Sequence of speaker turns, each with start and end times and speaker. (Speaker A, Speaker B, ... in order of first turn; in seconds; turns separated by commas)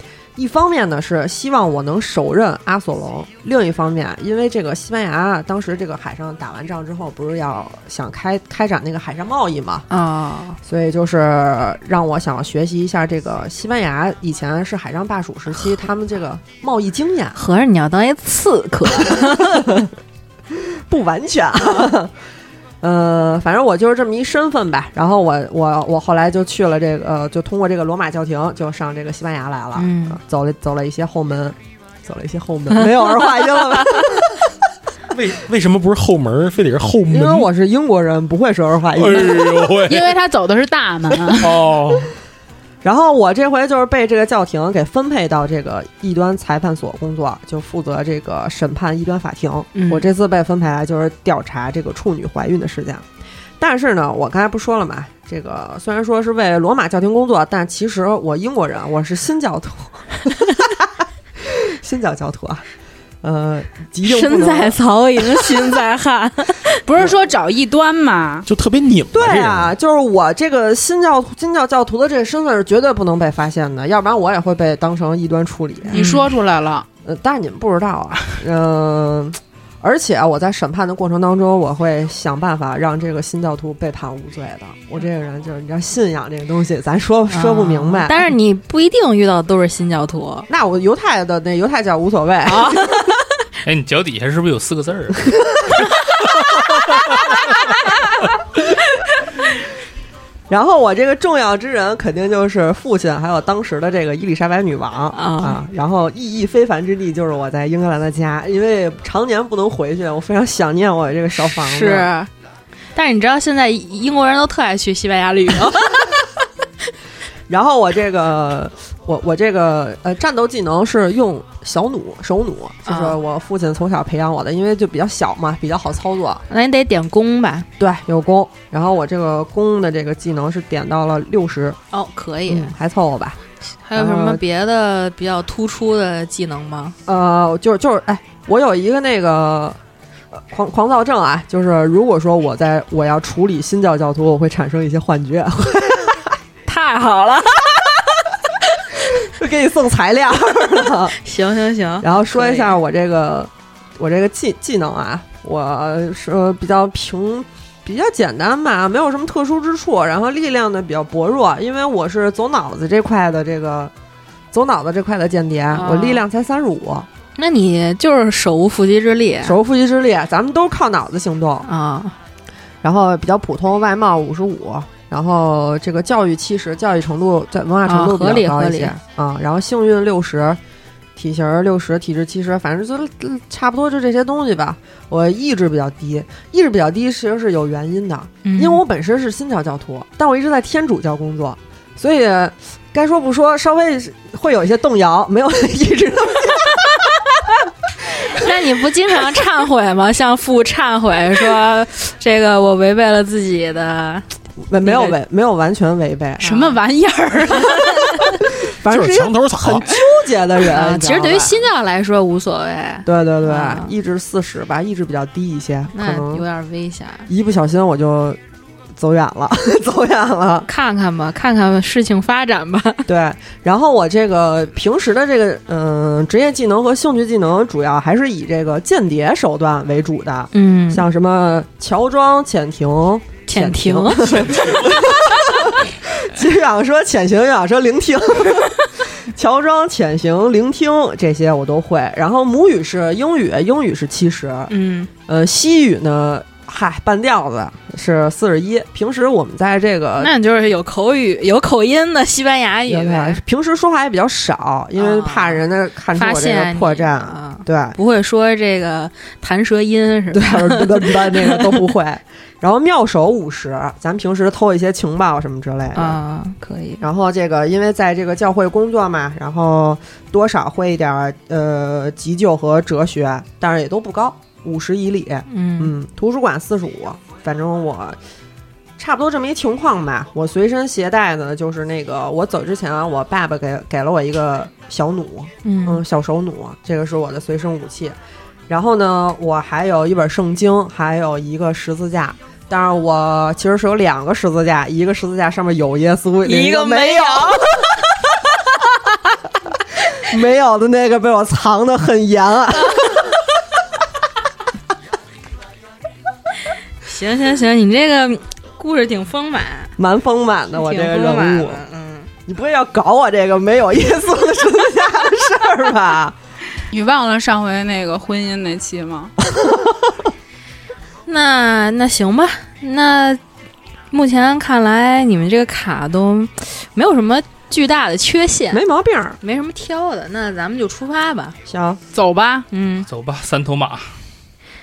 Speaker A: 0.4-9.9, Speaker B: 9.9-10.6, Speaker A: 10.6-17.4, Speaker B: 17.3-19.8, Speaker A: 19.0-19.9, Speaker A: 20.5-22.1, Speaker A: 22.8-34.5, Speaker B: 29.8-30.2, Speaker C: 35.1-37.5, Speaker A: 37.1-39.7, Speaker C: 39.0-40.1, Speaker D: 39.9-41.6, Speaker C: 41.3-42.1, Speaker A: 42.8-53.0, Speaker B: 49.7-50.1, Speaker A: 53.6-60.9, Speaker A: 61.4-62.6, Speaker A: 63.2-65.7, Speaker B: 64.0-66.8, Speaker D: 66.8-68.5, Speaker C: 68.5-69.7, Speaker A: 69.1-76.0, Speaker D: 75.9-76.9, Speaker B: 75.9-76.3, Speaker A: 77.0-88.3, Speaker B: 87.3-90.5, Speaker A: 90.5-93.0, Speaker B: 92.5-93.1, Speaker E: 93.6-95.3, Speaker A: 100.5-112.1, Speaker B: 105.1-105.6, Speaker B: 111.5-112.3, Speaker B: 112.9-116.2, Speaker A: 117.5-126.4, Speaker B: 122.9-123.2, Speaker B: 126.5-127.7, Speaker A: 127.8-131.8, Speaker B: 131.9-132.7, Speaker A: 132.5-133.4, Speaker B: 133.8-136.9, Speaker A: 133.9-134.4, Speaker A: 137.1-139.8, Speaker A: 140.3-146.4, Speaker B: 146.7-147.9, Speaker A: 149.2-151.2, Speaker B: 151.2-152.8, Speaker A: 152.0-163.9, Speaker A: 164.5-167.1, Speaker B: 165.7-166.2, Speaker B: 167.4-169.6, Speaker A: 169.4-171.7, Speaker B: 171.6-172.1, Speaker A: 172.8-180.6, Speaker B: 177.9-178.9, Speaker A: 181.2-197.1, Speaker B: 188.4-188.8, Speaker B: 198.2-204.3, Speaker A: 204.7-206.8, Speaker B: 204.8-205.2, Speaker D: 206.4-208.2, Speaker B: 207.8-208.4, Speaker A: 208.6-211.6, Speaker C: 208.8-209.9, Speaker B: 210.6-213.9, Speaker A: 213.1-216.4, Speaker B: 215.9-217.3, Speaker A: 217.3-218.4, Speaker A: 218.9-220.7, Speaker B: 220.7-223.1, Speaker A: 223.1-244.7, Speaker B: 230.5-231.1, Speaker B: 233.5-234.6, Speaker B: 244.7-245.1, Speaker A: 245.3-250.3, Speaker B: 250.2-253.4, Speaker A: 252.9-258.0, Speaker B: 255.0-261.6, Speaker A: 260.3-266.2, Speaker B: 265.9-267.0, Speaker A: 267.0-278.2, Speaker B: 275.5-275.9, Speaker A: 279.0-288.1, Speaker B: 285.6-286.0, Speaker A: 288.7-298.0, Speaker B: 296.5-297.5, Speaker D: 296.6-297.4, Speaker A: 300.2-303.4, Speaker B: 307.1-309.9, Speaker A: 310.0-311.8, Speaker B: 310.8-312.3, Speaker A: 312.4-316.4, Speaker D: 316.9-319.3, Speaker A: 319.4-320.1, Speaker B: 321.2-323.4, Speaker B: 324.1-328.8, Speaker A: 328.7-329.4, Speaker B: 329.4-331.6, Speaker A: 331.7-332.0, Speaker D: 332.1-332.7, Speaker B: 332.7-333.1, Speaker E: 333.1-334.1